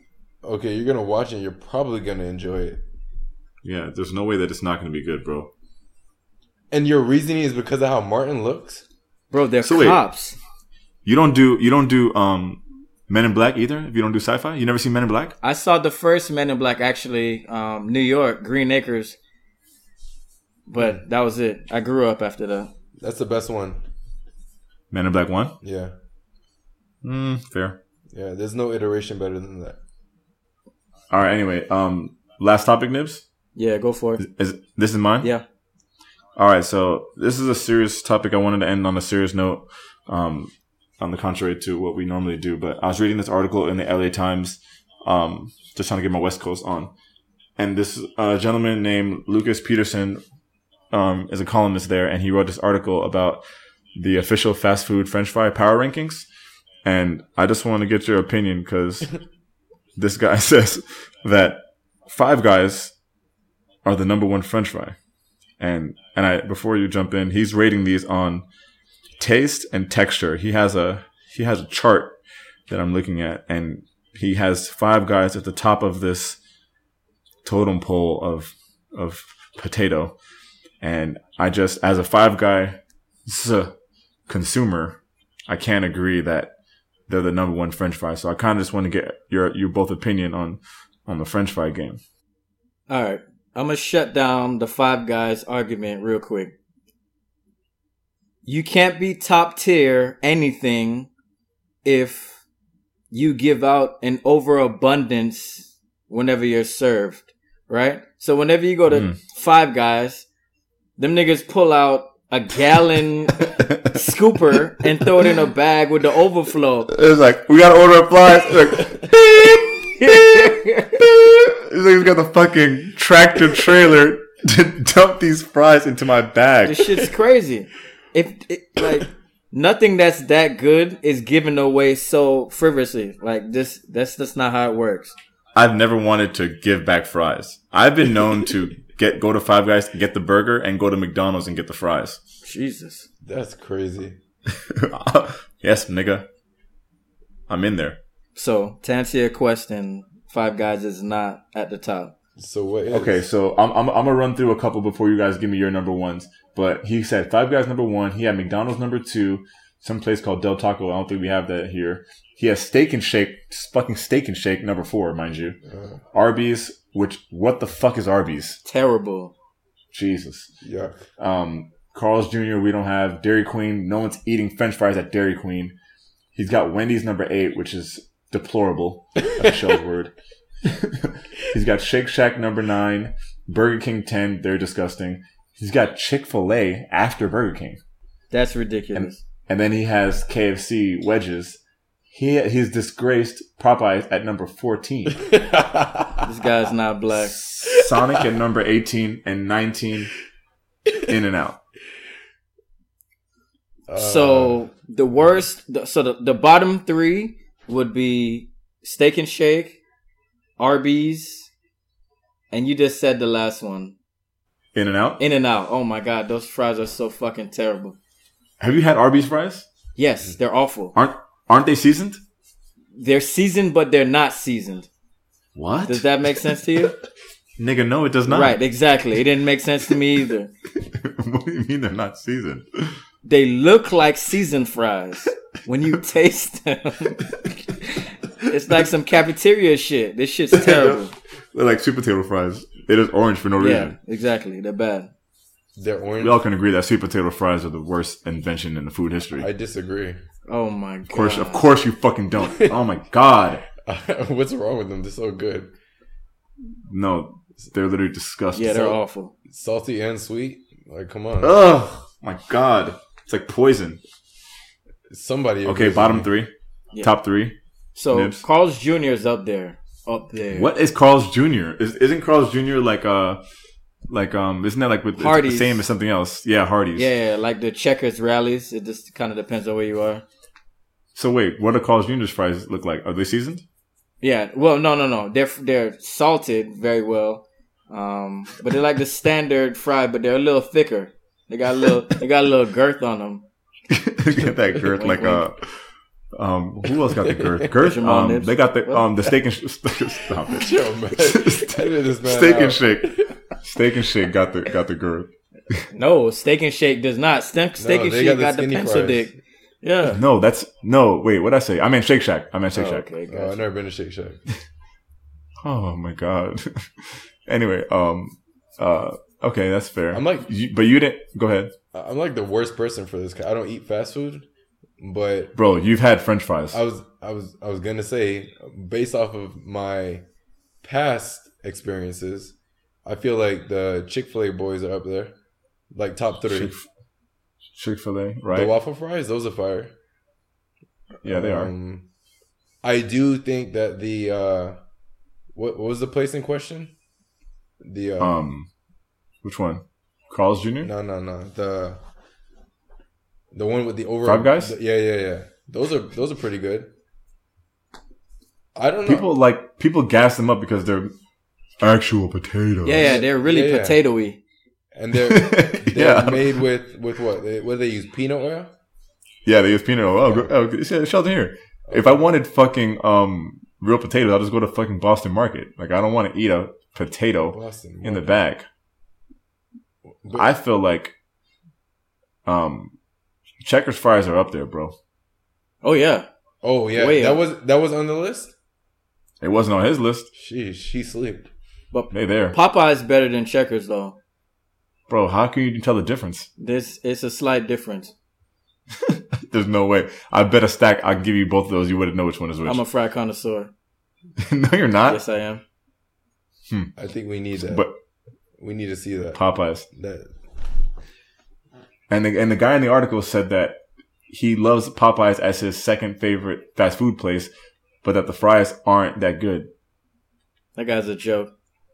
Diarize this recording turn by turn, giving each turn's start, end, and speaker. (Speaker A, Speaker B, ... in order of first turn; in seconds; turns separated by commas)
Speaker A: 0.4-2.8, Speaker B: 3.6-5.5, Speaker A: 6.7-8.8, Speaker C: 9.3-10.4, Speaker B: 9.6-10.0, Speaker B: 11.0-15.3, Speaker C: 15.4-19.2, Speaker C: 20.7-22.7, Speaker A: 23.0-23.8, Speaker B: 24.9-25.6, Speaker A: 25.6-25.9, Speaker B: 27.0-27.8, Speaker A: 28.1-29.8, Speaker B: 31.1-33.2, Speaker C: 33.5-34.2, Speaker B: 34.2-35.3, Speaker B: 36.4-46.9, Speaker B: 47.6-50.2, Speaker B: 50.9-53.4, Speaker B: 54.0-56.3, Speaker B: 56.8-59.1, Speaker B: 60.0-62.9, Speaker B: 63.8-65.0, Speaker B: 65.6-68.5, Speaker B: 69.2-72.2, Speaker B: 72.7-76.4, Speaker B: 77.4-80.2, Speaker B: 80.8-83.7, Speaker B: 84.3-86.5, Speaker B: 87.1-92.0, Speaker C: 92.9-96.5, Speaker C: 98.4-101.1, Speaker C: 101.8-102.4, Speaker C: 103.1-110.3, Speaker B: 108.9-109.2, Speaker C: 111.0-116.9, Speaker B: 113.6-113.9, Speaker B: 116.9-126.9, Speaker C: 120.0-121.0, Speaker C: 126.6-135.2, Speaker B: 135.5-142.2, Speaker C: 142.4-143.1, Speaker A: 143.2-144.2, Speaker B: 144.7-146.3, Speaker B: 147.5-148.0, Speaker C: 148.3-152.1, Speaker A: 152.4-153.2, Speaker B: 152.9-165.6, Speaker A: 165.7-166.0, Speaker B: 166.1-168.6, Speaker C: 168.6-169.3, Speaker B: 169.9-170.5, Speaker A: 170.6-171.1, Speaker B: 171.2-175.7, Speaker B: 176.3-187.8, Speaker C: 188.3-189.2, Speaker B: 188.9-191.6, Speaker B: 192.1-195.3, Speaker A: 195.2-196.2, Speaker C: 196.2-197.3, Speaker B: 197.1-200.1, Speaker B: 201.0-201.6, Speaker A: 203.9-204.6, Speaker C: 203.9-209.8, Speaker C: 210.6-211.5, Speaker C: 212.5-213.9, Speaker B: 214.7-215.2, Speaker C: 215.2-218.0, Speaker B: 218.6-219.7, Speaker C: 219.9-220.9, Speaker B: 220.9-222.2, Speaker C: 222.9-224.9, Speaker B: 225.5-226.1, Speaker C: 225.9-226.9, Speaker B: 227.6-228.6, Speaker C: 228.3-230.5, Speaker B: 230.8-232.9, Speaker C: 233.2-241.1, Speaker B: 238.5-238.8, Speaker B: 240.5-241.0, Speaker B: 241.5-243.9, Speaker C: 243.6-245.1, Speaker A: 245.8-246.4, Speaker B: 246.2-249.5, Speaker A: 249.4-250.2, Speaker C: 250.5-251.6, Speaker B: 251.1-253.7, Speaker A: 252.4-252.8, Speaker A: 253.8-255.7, Speaker B: 256.9-258.9, Speaker C: 258.5-259.3, Speaker A: 259.5-261.6, Speaker B: 261.4-264.0, Speaker A: 265.1-266.3, Speaker B: 265.6-267.6, Speaker C: 267.9-270.7, Speaker B: 268.1-268.4, Speaker B: 270.5-273.4, Speaker B: 274.1-277.1, Speaker C: 275.2-275.8, Speaker C: 276.9-280.2, Speaker B: 281.1-283.6, Speaker C: 284.2-293.4, Speaker B: 293.9-295.6, Speaker C: 294.9-295.4, Speaker B: 296.3-305.8, Speaker A: 297.1-297.7, Speaker C: 297.8-299.1, Speaker A: 300.5-303.3, Speaker C: 305.9-310.2, Speaker A: 307.8-309.4, Speaker B: 310.1-313.1, Speaker C: 312.7-313.6, Speaker A: 313.3-314.4, Speaker B: 315.6-321.7, Speaker A: 320.1-320.5, Speaker A: 321.9-324.5, Speaker A: 325.0-325.5, Speaker B: 325.5-326.8, Speaker A: 326.7-330.2, Speaker A: 330.8-335.3, Speaker A: 335.9-336.7, Speaker B: 336.5-336.8, Speaker B: 337.8-338.7, Speaker A: 338.5-339.9, Speaker B: 341.2-341.7, Speaker A: 341.2-342.1, Speaker A: 342.8-344.8, Speaker A: 345.5-346.9, Speaker A: 347.8-348.3, Speaker B: 348.2-348.7, Speaker B: 349.4-350.9, Speaker A: 350.8-352.0, Speaker A: 353.5-356.9, Speaker B: 354.2-354.7, Speaker A: 358.7-359.3, Speaker B: 359.1-361.1, Speaker B: 361.8-363.2, Speaker C: 362.8-364.4, Speaker A: 363.0-364.0, Speaker A: 364.9-368.7, Speaker B: 365.2-366.6, Speaker B: 369.4-378.7, Speaker A: 370.2-370.5, Speaker A: 371.9-372.2, Speaker A: 377.5-378.3, Speaker A: 380.2-380.5, Speaker B: 380.3-381.1, Speaker B: 382.4-382.9, Speaker B: 383.6-384.9, Speaker C: 385.8-386.3, Speaker A: 386.6-388.5, Speaker C: 386.9-387.4, Speaker B: 389.4-390.3, Speaker A: 390.3-391.4, Speaker C: 391.9-394.2, Speaker B: 392.1-392.6, Speaker B: 395.1-396.5, Speaker C: 396.6-398.1, Speaker B: 399.0-402.8, Speaker C: 402.6-403.7, Speaker B: 404.4-405.2, Speaker C: 405.1-405.6, Speaker B: 406.7-406.9, Speaker A: 407.0-407.9, Speaker B: 407.6-407.9, Speaker A: 408.6-409.4, Speaker B: 409.3-409.9, Speaker A: 409.9-410.3, Speaker B: 412.1-417.5, Speaker B: 418.0-419.7, Speaker C: 420.8-421.5